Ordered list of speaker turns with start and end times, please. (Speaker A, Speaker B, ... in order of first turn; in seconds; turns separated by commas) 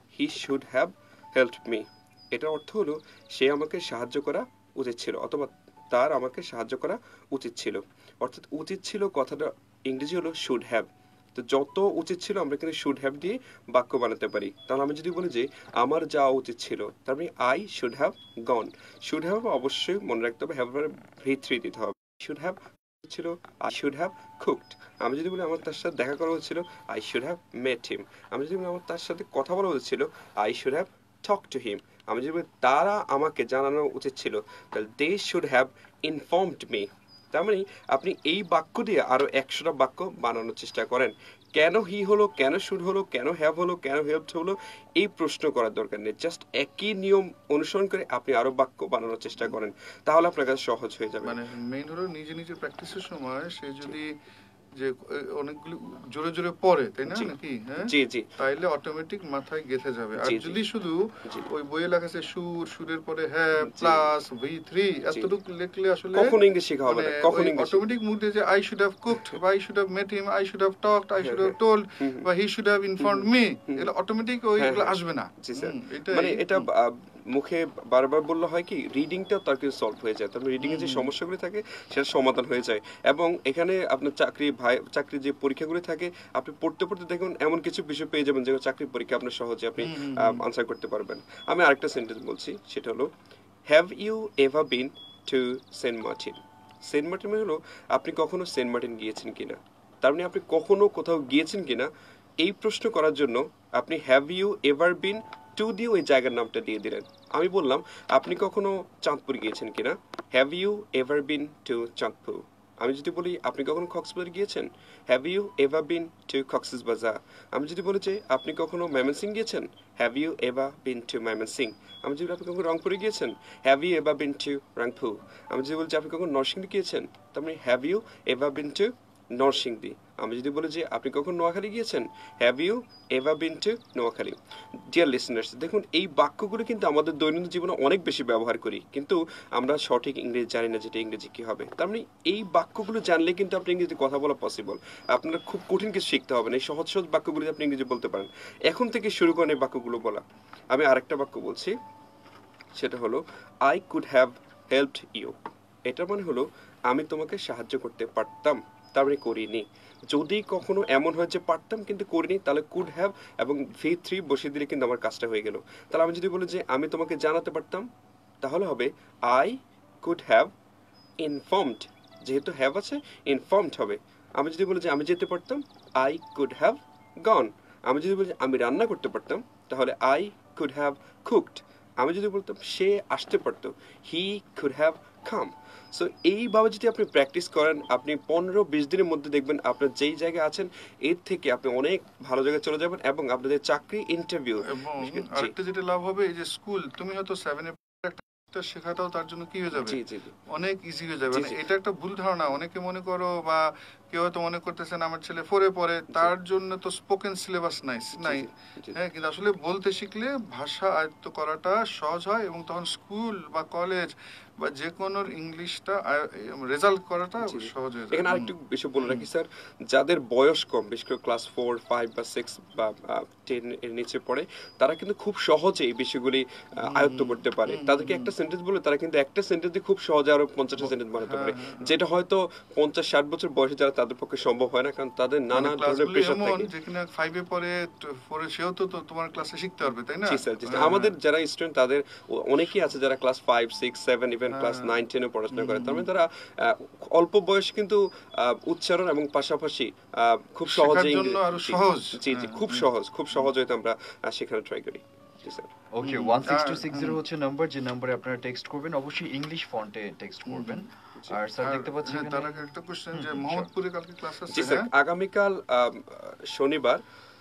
Speaker A: 0.1-51.4, Speaker B: 51.2-54.1, Speaker B: 54.8-76.7, Speaker A: 57.9-58.3, Speaker A: 60.2-60.6, Speaker A: 63.6-64.0, Speaker A: 66.1-67.8, Speaker A: 71.2-72.2, Speaker A: 73.0-73.9, Speaker A: 74.6-93.1, Speaker B: 80.6-81.1, Speaker B: 89.8-90.4, Speaker A: 93.7-101.9, Speaker A: 102.4-134.4, Speaker A: 134.9-151.8, Speaker A: 152.7-155.3, Speaker A: 155.8-167.8, Speaker A: 168.4-170.5, Speaker A: 171.2-195.5, Speaker B: 194.7-219.2, Speaker A: 199.7-200.3, Speaker A: 208.2-209.0, Speaker A: 217.4-236.7, Speaker B: 226.8-228.3, Speaker B: 230.8-231.9, Speaker B: 235.5-241.2, Speaker A: 240.3-255.7, Speaker B: 244.5-244.9, Speaker B: 245.5-246.1, Speaker B: 250.7-252.9, Speaker C: 255.9-262.5, Speaker B: 256.0-257.2, Speaker B: 260.4-260.8, Speaker B: 261.6-264.9, Speaker C: 263.1-263.7, Speaker A: 264.5-267.0